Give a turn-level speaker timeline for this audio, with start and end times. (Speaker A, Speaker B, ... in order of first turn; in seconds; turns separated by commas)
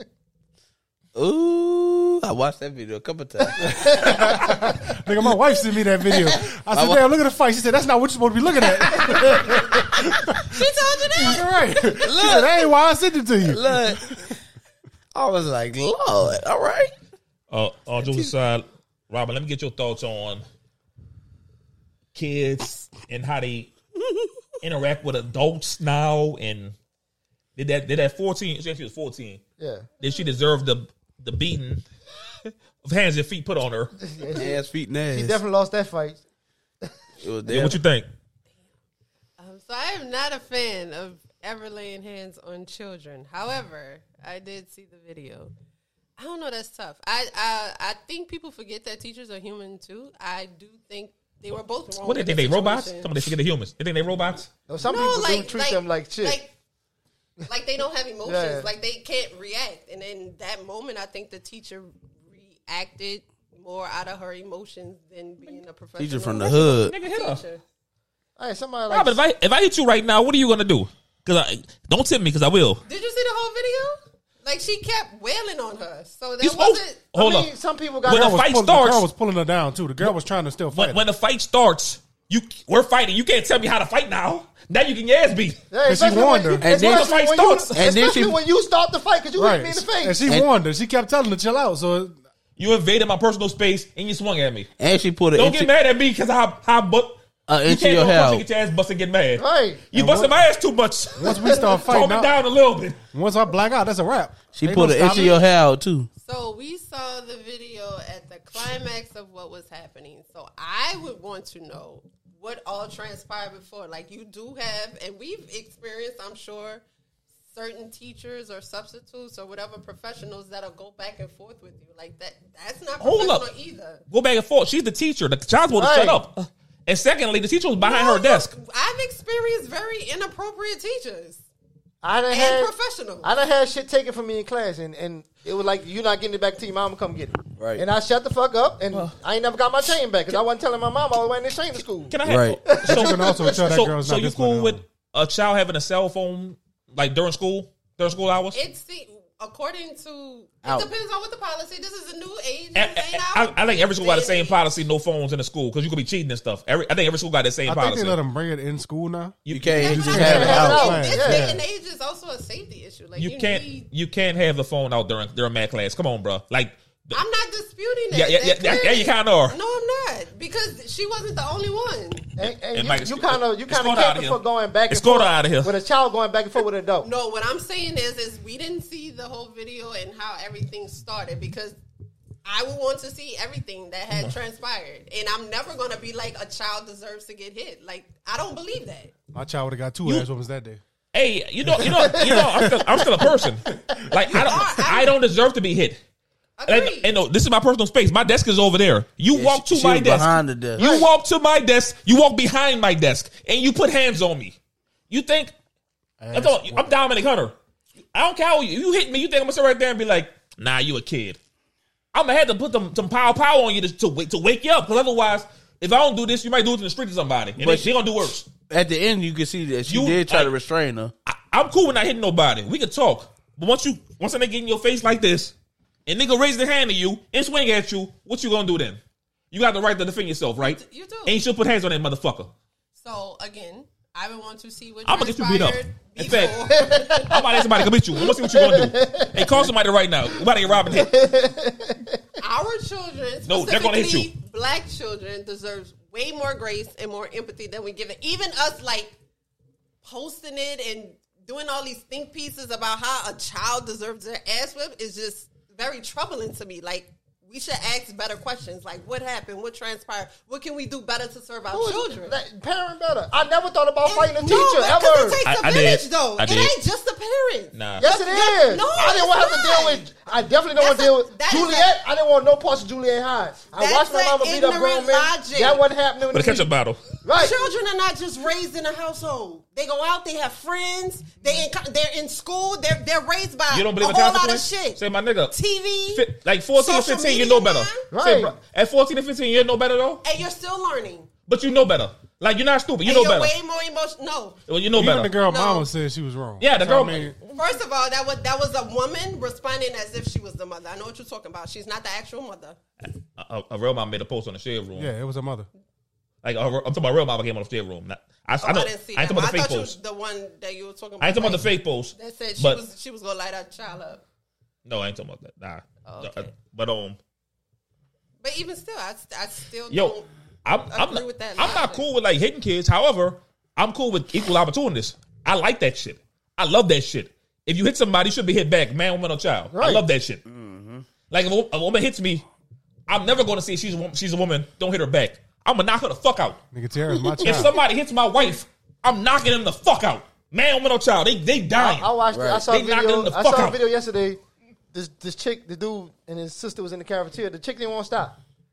Speaker A: 1.1-4.1, Speaker B: 3.6-14.3, Speaker C: 3.6-4.8, Speaker A: 6.7-7.0, Speaker D: 8.7-12.1, Speaker A: 12.0-12.6, Speaker A: 13.4-14.3, Speaker A: 15.1-16.9, Speaker E: 17.5-20.4, Speaker E: 22.1-23.7, Speaker E: 24.6-26.7, Speaker E: 27.6-29.4, Speaker C: 29.6-29.9, Speaker E: 30.0-31.8, Speaker E: 32.4-33.9, Speaker C: 34.0-36.2, Speaker A: 34.3-35.4, Speaker A: 37.2-37.8, Speaker E: 37.5-38.1, Speaker D: 39.4-45.5, Speaker D: 46.2-53.1, Speaker E: 52.0-54.5, Speaker C: 54.7-56.4, Speaker D: 54.8-56.5, Speaker D: 57.5-67.6, Speaker C: 58.2-58.7, Speaker A: 66.0-66.9, Speaker E: 66.7-67.4, Speaker C: 68.4-69.2, Speaker E: 68.9-72.8, Speaker D: 72.8-77.0, Speaker E: 76.4-77.5, Speaker C: 77.1-78.4, Speaker E: 78.1-79.1, Speaker B: 78.1-81.0, Speaker E: 80.7-85.6, Speaker C: 85.7-90.3, Speaker B: 85.8-86.7, Speaker A: 86.6-87.1, Speaker E: 86.7-87.8, Speaker A: 87.7-88.4, Speaker B: 89.4-92.2, Speaker E: 92.6-94.7, Speaker A: 94.8-95.7, Speaker E: 95.3-103.0, Speaker A: 97.5-98.4, Speaker C: 99.4-99.8, Speaker B: 99.9-100.4, Speaker B: 101.2-102.3, Speaker C: 101.3-101.7, Speaker B: 103.1-105.4, Speaker A: 104.5-106.1, Speaker D: 106.2-116.8, Speaker D: 117.5-124.0, Speaker E: 123.0-123.5, Speaker E: 124.1-128.5, Speaker C: 125.7-126.2, Speaker D: 127.8-131.4, Speaker C: 132.0-132.7, Speaker D: 132.3-133.3, Speaker C: 133.2-142.1, Speaker A: 137.6-137.8, Speaker E: 142.1-148.6, Speaker A: 142.2-142.6, Speaker C: 142.7-143.6, Speaker B: 142.8-144.8, Speaker D: 148.5-154.6, Speaker A: 150.6-150.9, Speaker E: 152.7-158.2, Speaker B: 157.7-161.6, Speaker E: 159.4-160.1, Speaker A: 159.5-161.0, Speaker D: 159.7-163.9, Speaker C: 160.1-161.6, Speaker E: 163.2-167.2, Speaker D: 167.1-172.3, Speaker E: 168.1-169.6, Speaker C: 172.4-177.1, Speaker E: 172.4-175.7, Speaker D: 177.0-181.8, Speaker D: 182.4-189.1, Speaker B: 189.3-190.8, Speaker E: 191.1-196.0, Speaker C: 191.9-192.5, Speaker B: 192.1-192.4, Speaker D: 194.2-195.2, Speaker D: 196.6-197.1, Speaker E: 196.7-204.6, Speaker A: 199.3-200.8, Speaker C: 200.8-201.1, Speaker E: 205.1-205.5, Speaker B: 206.2-207.0, Speaker E: 206.3-207.6, Speaker E: 208.1-211.4, Speaker E: 212.1-218.5, Speaker A: 217.6-217.9, Speaker A: 218.7-221.1, Speaker E: 219.9-220.5, Speaker E: 221.2-225.5, Speaker E: 226.1-229.0, Speaker E: 229.5-232.5, Speaker D: 230.6-231.3, Speaker D: 233.0-237.4, Speaker E: 235.1-236.6, Speaker C: 236.7-239.7, Speaker E: 237.2-241.1, Speaker C: 240.7-242.2, Speaker D: 242.4-249.1, Speaker E: 243.4-244.3, Speaker D: 250.0-262.4, Speaker C: 261.7-265.4, Speaker D: 264.1-270.1, Speaker E: 265.4-266.7, Speaker E: 267.7-268.1, Speaker C: 268.0-276.7, Speaker D: 270.8-272.0, Speaker D: 273.7-275.9, Speaker E: 276.3-277.0, Speaker C: 277.2-277.6, Speaker D: 277.3-285.0, Speaker E: 283.7-285.6, Speaker D: 285.5-288.1, Speaker E: 286.1-290.2, Speaker C: 288.1-288.6, Speaker D: 290.2-291.3, Speaker E: 291.5-293.5, Speaker D: 293.1-294.6, Speaker E: 294.7-295.3, Speaker B: 294.9-297.4, Speaker D: 295.4-295.9, Speaker E: 296.6-297.6, Speaker D: 297.6-302.8, Speaker E: 303.4-305.1, Speaker B: 304.9-305.7, Speaker E: 306.4-309.9, Speaker D: 308.6-314.2, Speaker E: 311.2-312.8, Speaker E: 314.9-317.2, Speaker D: 316.1-316.5, Speaker D: 318.4-320.3, Speaker E: 319.9-330.4, Speaker D: 320.9-322.1, Speaker C: 329.7-330.0, Speaker A: 330.4-331.1, Speaker E: 331.3-332.4, Speaker E: 333.1-336.6, Speaker B: 336.7-337.7, Speaker E: 337.4-342.1, Speaker C: 341.8-344.4, Speaker A: 342.3-342.7, Speaker E: 342.7-343.8, Speaker C: 344.9-348.4